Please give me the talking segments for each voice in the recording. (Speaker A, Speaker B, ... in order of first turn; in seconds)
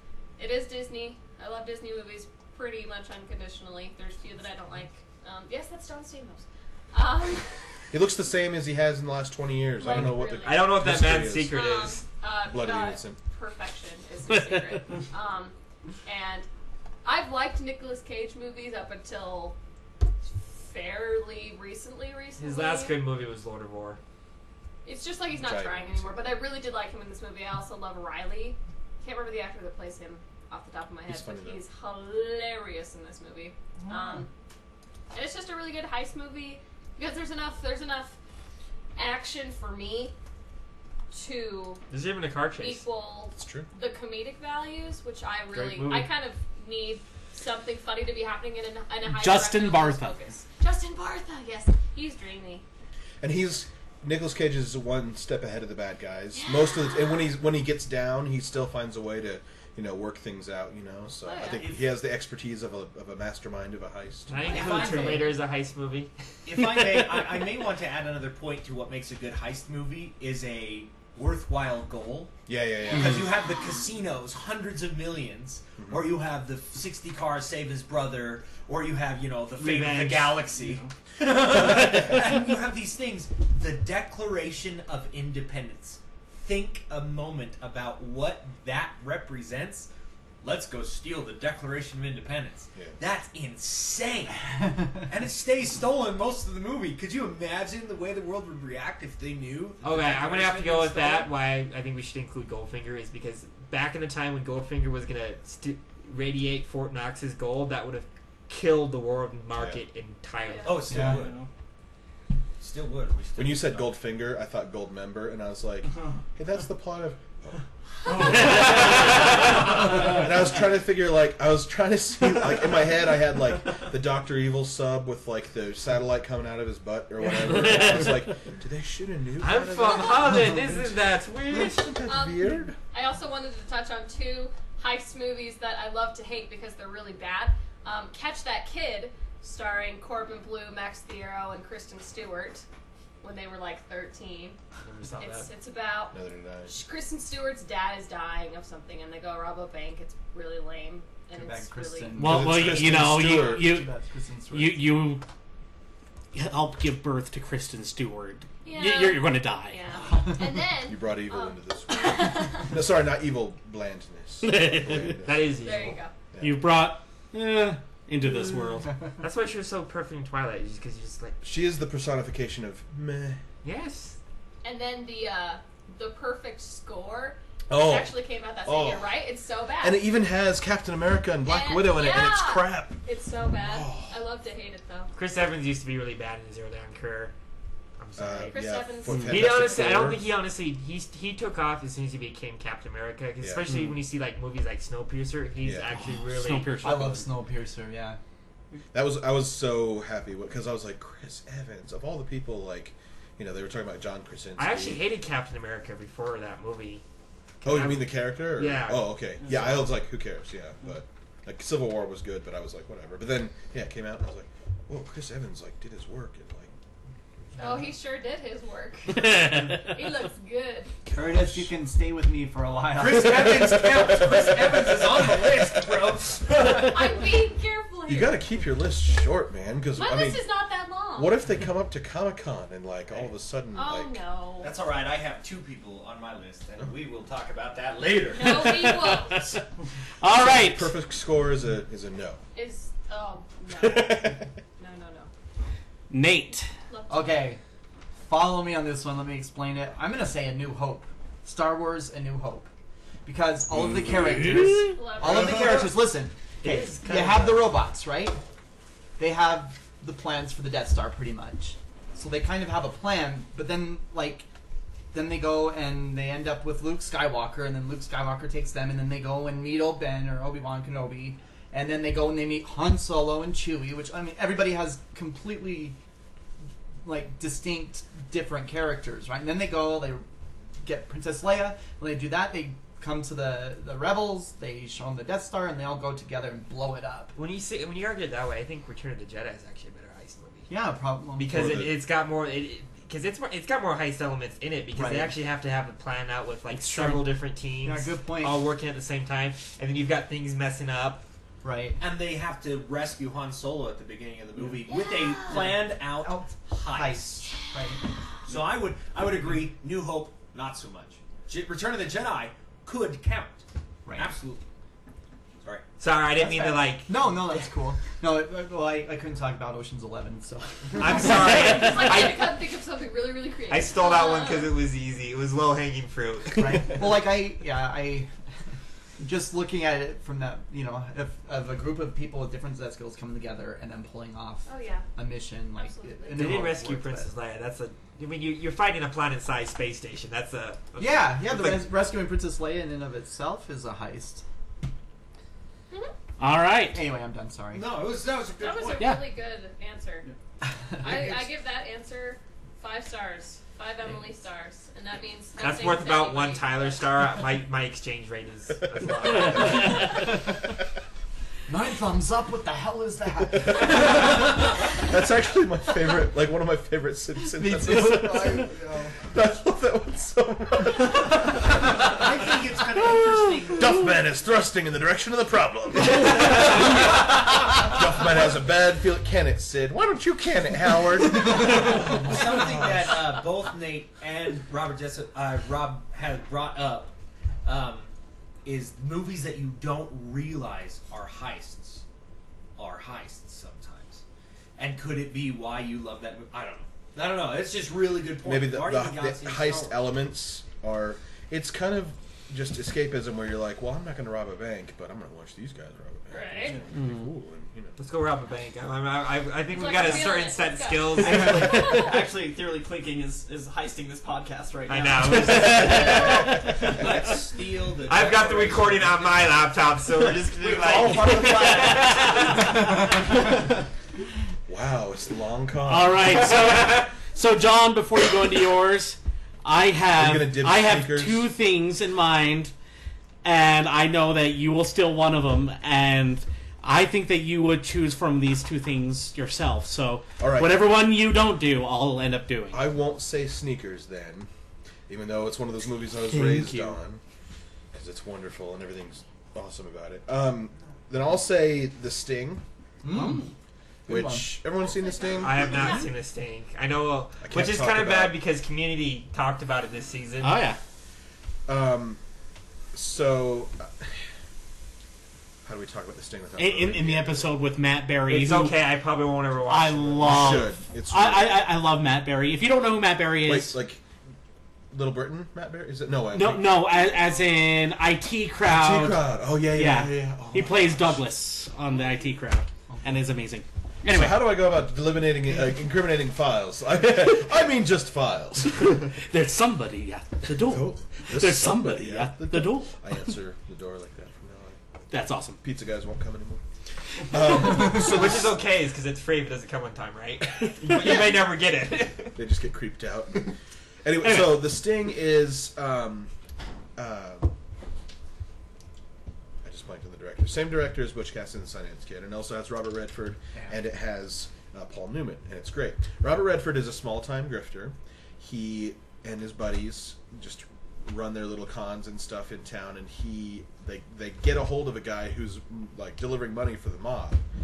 Speaker A: 0.4-7.5, 9.8-11.0, 11.5-16.5, 17.0-19.6, 20.5-23.0, 24.9-34.3, 35.1-38.2, 39.0-40.1, 41.1-41.8, 42.6-52.6, 56.4-57.1, 61.2-61.7, 64.4-65.4, 110.5-110.8, 132.1-142.7, 143.2-144.6, 145.2-152.2, 158.6-162.7, 165.6-166.1, 174.6-180.0, 181.4-185.1, 188.5-189.9, 217.6-220.9, 226.6-228.4, 229.9-231.4, 233.7-234.7, 238.3-239.6, 242.6-245.3, 246.9-247.4, 254.9-255.8, 321.6-324.7, 334.7-335.1, 335.8-336.6, 348.6-350.3, 351.0-357.0, 406.3-406.8, 409.7-412.2, 455.4-456.0
Speaker B: 7.9-11.6, 12.4-13.2, 25.3-26.5, 31.1-31.6, 43.4-43.7, 53.2-64.6, 72.5-73.4, 75.8-76.1, 109.5-109.8, 113.4-131.0, 131.5-132.8, 146.1-146.8, 152.2-153.8, 160.8-166.7, 171.4-173.4, 177.7-179.2, 179.8-183.0, 183.6-184.2, 188.2-190.2, 193.4-193.7, 195.6-195.9, 198.9-205.0, 207.6-216.7, 221.1-221.5, 223.5-224.4, 228.1-230.5, 231.1-234.2, 240.3-242.4, 243.8-244.4, 291.5-291.9, 363.6-368.7, 369.2-371.7, 373.8-383.2, 398.4-408.0, 420.6-422.4, 424.7-426.6, 430.1-431.5, 440.4-440.9, 442.7-444.5, 445.1-447.2, 447.9-452.6, 454.1-455.8, 457.4-458.4, 461.7-462.2, 462.9-464.2, 465.6-467.6, 470.2-471.7, 473.4-474.0, 474.9-476.9, 478.6-481.2, 484.1-489.1, 490.5-494.8, 495.6-496.6, 497.3-498.6, 500.9-501.4, 502.4-506.3, 507.0-507.5, 509.6-527.4
Speaker C: 9.9-12.0, 22.4-24.0, 41.9-42.8, 45.5-46.1, 64.3-66.1, 79.6-80.5, 99.8-110.8, 129.4-132.0, 144.8-145.5, 165.2-166.0, 169.2-171.4, 173.6-174.2, 185.2-187.3, 188.0-188.6, 189.2-196.8, 204.6-207.0, 207.6-209.2, 256.6-257.7, 287.4-290.7, 291.4-301.2, 316.0-317.7, 321.0-322.6, 323.7-327.1, 336.3-341.9, 355.6-360.2, 408.0-411.9, 414.9-416.5, 418.1-423.0, 455.4-460.7, 468.3-470.6, 497.3-502.4
Speaker D: 14.3-14.8, 49.0-50.2, 152.2-153.9, 154.5-155.2, 156.3-159.8, 164.4-165.2, 166.4-168.9, 189.1-189.4, 196.0-197.3, 219.2-219.7, 238.4-239.7, 240.2-240.9, 246.1-246.7, 253.9-254.9, 296.7-297.3, 346.4-347.0, 349.0-349.3, 406.9-407.3, 425.9-432.7, 433.4-442.9, 446.3-447.0, 453.1-453.5, 460.4-460.8, 466.6-468.8, 469.7-473.8, 476.3-484.6, 488.9-492.9, 495.1-495.6, 504.2-504.7
Speaker E: 66.5-72.3, 72.9-89.9, 90.4-94.5, 95.0-101.3, 110.6-111.4, 112.6-113.9, 221.2-221.7, 222.9-227.0, 234.6-238.9, 302.0-307.6, 308.5-314.6, 347.7-349.1, 372.0-374.0, 381.4-387.1, 387.6-388.1, 388.6-392.0, 392.8-394.2, 394.8-400.1, 416.9-419.6, 421.1-421.9
Speaker F: 80.6-80.9, 110.9-111.5, 209.4-209.9, 411.1-417.3
Speaker G: 110.9-111.2, 151.3-155.1, 196.8-198.2, 221.1-223.7, 247.1-247.6, 248.2-252.7, 253.2-258.4, 259.2-264.5, 265.1-276.0, 277.0-280.2, 280.8-287.3, 290.7-291.8, 294.9-295.4, 297.8-298.6, 301.6-302.0, 304.6-304.9, 305.4-308.0, 314.1-314.4, 316.4-321.8, 326.6-328.3, 329.2-337.3, 341.0-344.4, 346.9-348.0, 350.6-351.3, 361.7-364.4, 367.5-369.2, 372.4-373.6, 453.0-453.5, 454.1-454.6, 482.9-483.2